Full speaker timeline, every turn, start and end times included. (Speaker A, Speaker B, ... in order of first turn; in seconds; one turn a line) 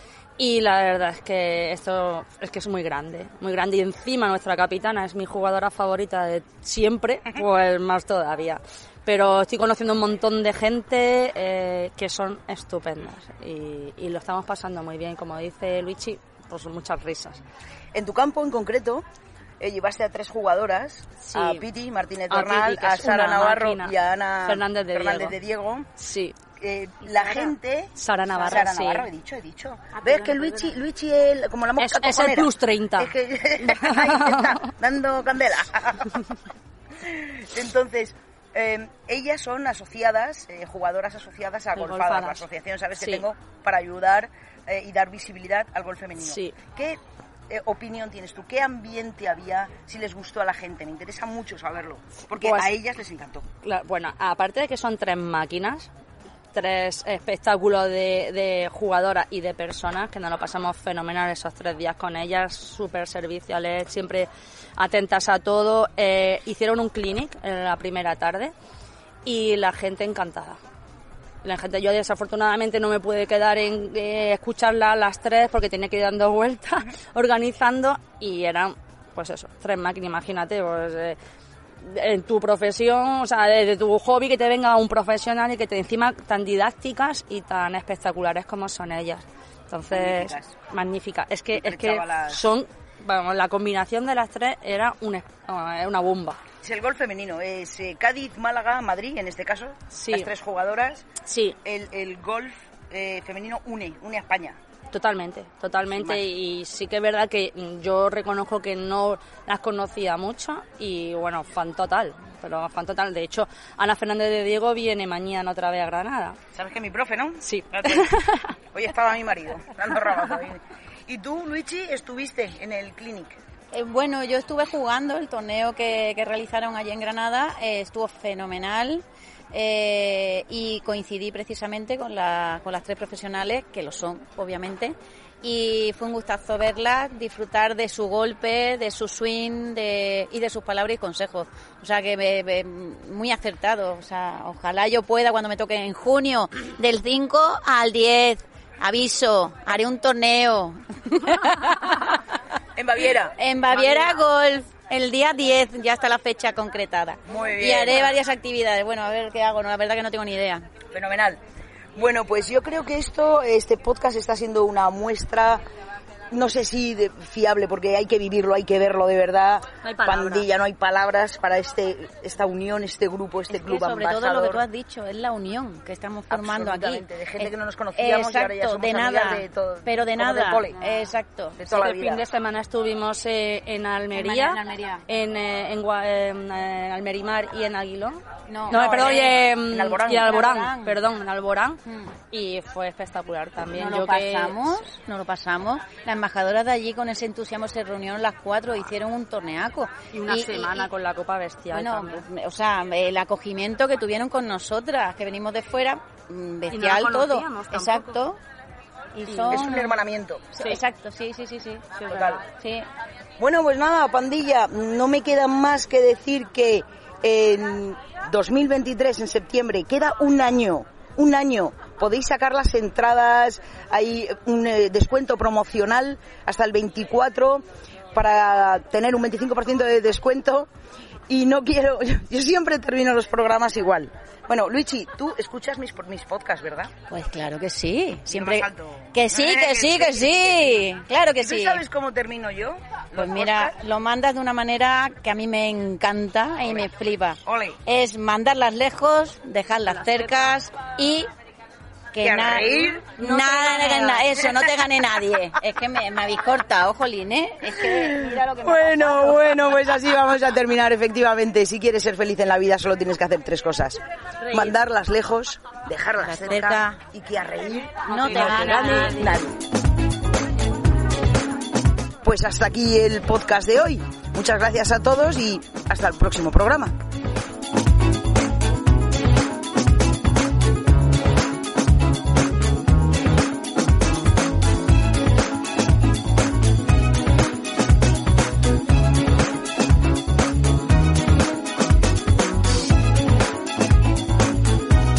Speaker A: 0.4-17.4
Speaker B: 17.9-19.0
Speaker B: 19.6-25.9
Speaker A: 21.2-21.6
Speaker A: 22.3-25.4
Speaker A: 26.0-26.4
Speaker B: 26.6-36.2
Speaker A: 27.9-29.1
Speaker A: 31.8-34.6
Speaker B: 37.0-53.5
Speaker A: 41.7-42.5
Speaker A: 43.0-43.2
Speaker A: 46.2-46.6
Speaker A: 52.3-52.7
Speaker A: 53.6-55.9
Speaker A: 56.5-68.5
Speaker A: 69.2-70.6
Speaker A: 71.4-81.2
Speaker A: 81.8-96.4
Speaker B: 89.9-90.5
Speaker B: 91.5-92.5
Speaker B: 96.6-101.1
Speaker A: 99.9-100.3
Speaker A: 101.2-101.6
Speaker B: 101.6-104.6
Speaker A: 104.9-116.4
Speaker B: 105.9-106.2
Speaker B: 116.5-118.2
Speaker A: 117.4-118.5
Speaker B: 118.7-123.4
Speaker C: 123.7-152.2
Speaker B: 152.8-154.1
Speaker C: 153.4-160.7
Speaker B: 157.3-158.1
Speaker B: 160.9-161.4
Speaker B: 161.9-165.6
Speaker B: 166.3-174.6
Speaker A: 169.8-170.5
Speaker C: 173.5-181.6
Speaker B: 176.3-181.0
Speaker B: 181.6-182.2
Speaker A: 181.7-191.8
Speaker C: 184.1-185.1
Speaker C: 188.4-189.4
Speaker B: 188.7-190.3
Speaker C: 190.2-191.0
Speaker C: 191.8-192.1
Speaker A: 192.3-194.6
Speaker C: 193.7-200.9
Speaker A: 200.1-202.2
Speaker C: 201.7-208.4
Speaker A: 206.7-208.2
Speaker C: 209.1-210.0
Speaker A: 209.3-209.6
Speaker B: 209.3-210.6
Speaker C: 210.5-212.8
Speaker A: 211.9-212.2
Speaker B: 212.1-212.4
Speaker B: 213.4-230.7
Speaker B: 231.3-236.9
Speaker C: 237.1-241.8
Speaker B: 238.3-243.8
Speaker C: 243.1-251.3
Speaker B: 247.4-247.8
Speaker C: 252.1-259.6
Speaker B: 252.2-254.7
Speaker B: 257.7-269.5
Speaker C: 266.2-267.0
Speaker C: 268.1-269.1
Speaker A: 268.1-269.3
Speaker B: 272.2-277.0